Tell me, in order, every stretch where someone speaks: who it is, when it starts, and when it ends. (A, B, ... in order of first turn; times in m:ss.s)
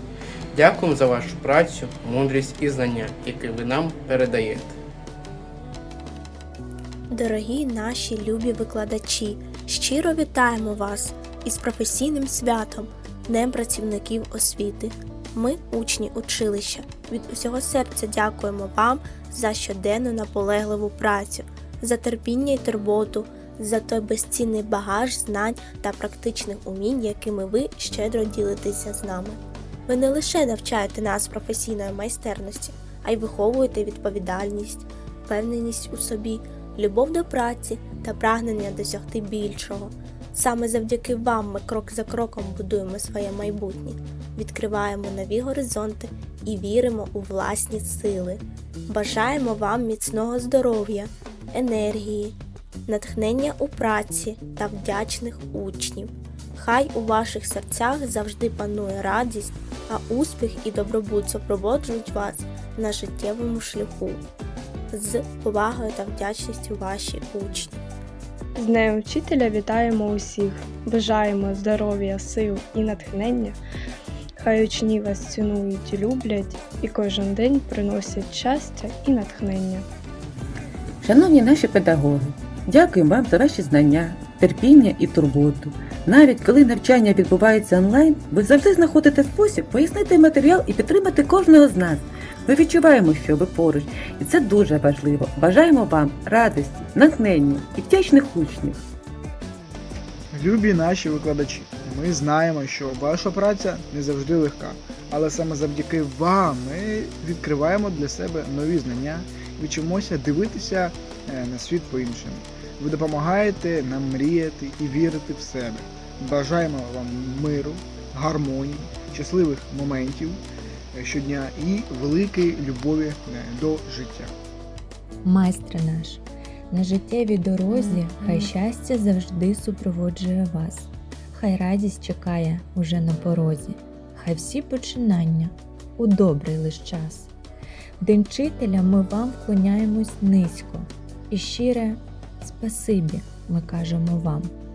0:00.5-0:04.8 A
0:07.1-1:04.2 B
1:04.9-1:07.8 B
1:08.5-1:13.6 C
1:14.4-1:19.9 C
1:21.0-1:38.8 D
1:40.3-2:00.4 E
2:00.9-2:04.3 E
2:05.2-2:17.3 F
2:07.7-2:08.5 C
2:18.0-2:24.5 F